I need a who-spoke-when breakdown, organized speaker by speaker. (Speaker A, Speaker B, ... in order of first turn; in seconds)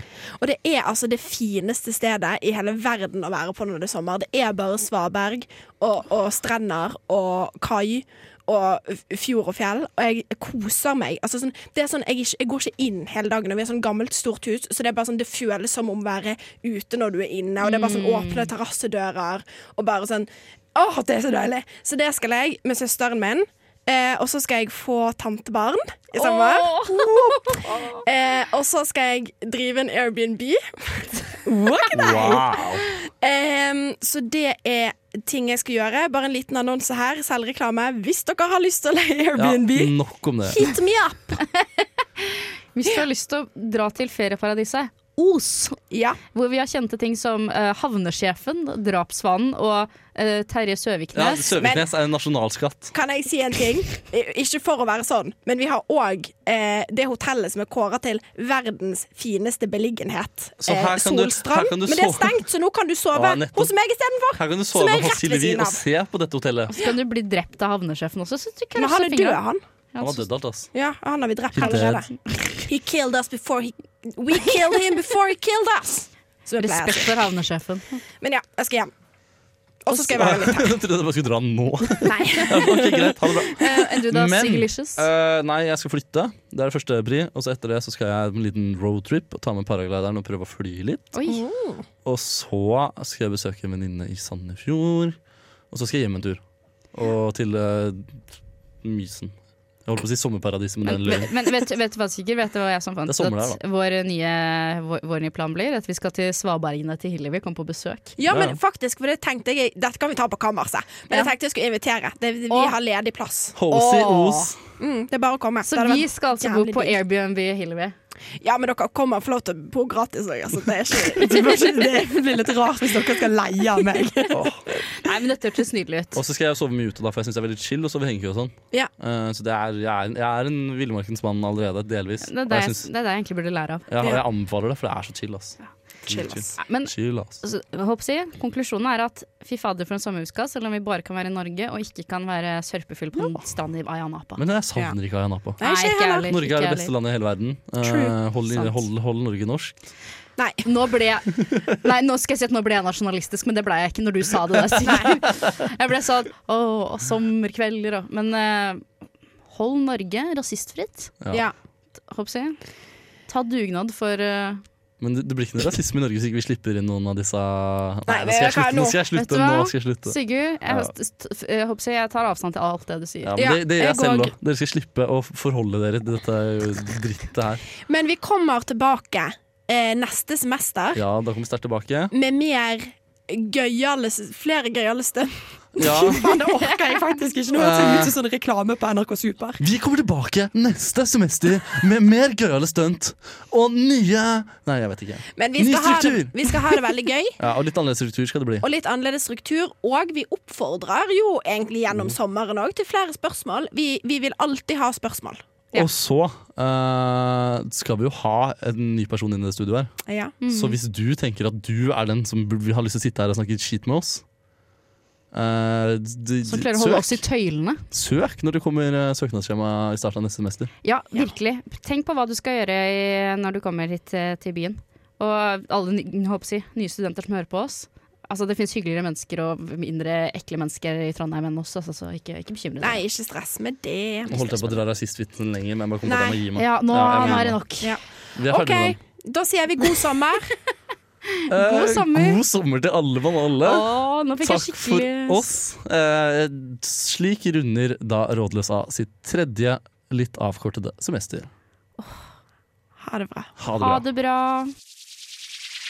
Speaker A: 0.4-31.4, 32.0-39.5, 40.5-41.4, 45.9-46.2, 51.6-51.9, 52.9-65.8, 68.8-69.6, 70.7-77.2, 78.2-78.9, 79.8-80.8, 82.0-83.9, 91.3-91.8, 108.2-113.6, 114.8-117.0, 118.4-124.3, 136.1-136.6, 145.6-146.3, 147.8-148.2, 150.4-150.7, 168.1-169.0, 173.4-174.3, 177.9-181.0, 182.1-186.8, 195.4-197.4, 198.6-205.8, 210.1-210.4, 232.8-234.8, 236.0-236.4, 237.2-240.6, 253.0-253.5
Speaker B: 17.6-18.5, 26.2-28.0, 41.4-45.8, 46.3-51.6, 66.7-69.4, 69.9-70.3, 76.6-78.0, 83.6-85.1, 91.1-91.4, 100.8-108.2, 113.7-114.5, 115.6-117.9, 124.7-126.2, 132.2-133.9, 136.6-144.4, 145.6-146.9, 148.5-148.8, 150.7-158.9, 159.5-161.1, 162.1-162.6, 163.3-164.6, 169.1-173.4, 210.4-210.8, 216.5-217.8, 220.8-233.0, 236.6-238.0, 241.4-242.4, 243.6-245.5, 253.8-254.7
Speaker C: 31.5-32.4, 39.4-40.0, 121.1-124.3, 185.9-189.6
Speaker D: 31.9-32.9, 39.4-40.6, 51.1-52.9, 60.6-62.4, 63.1-63.7, 64.4-66.7, 70.0-70.7, 71.5-72.1, 79.9-91.2, 92.0-95.2, 95.7-96.4, 96.9-98.3, 98.8-101.3, 103.1-103.6, 108.3-108.6, 113.5-114.6, 124.3-124.6, 126.2-132.9, 133.9-137.4, 144.4-145.6, 146.2-149.8, 165.0-170.2, 170.7-170.9, 173.2-177.6, 180.9-182.1, 185.8-186.3, 187.6-188.2, 189.6-196.4, 197.4-198.7, 201.9-202.2, 205.7-209.9, 210.5-214.2, 215.3-217.2, 217.9-220.7, 234.3-237.6, 238.4-239.0, 241.5-251.5, 253.6-254.0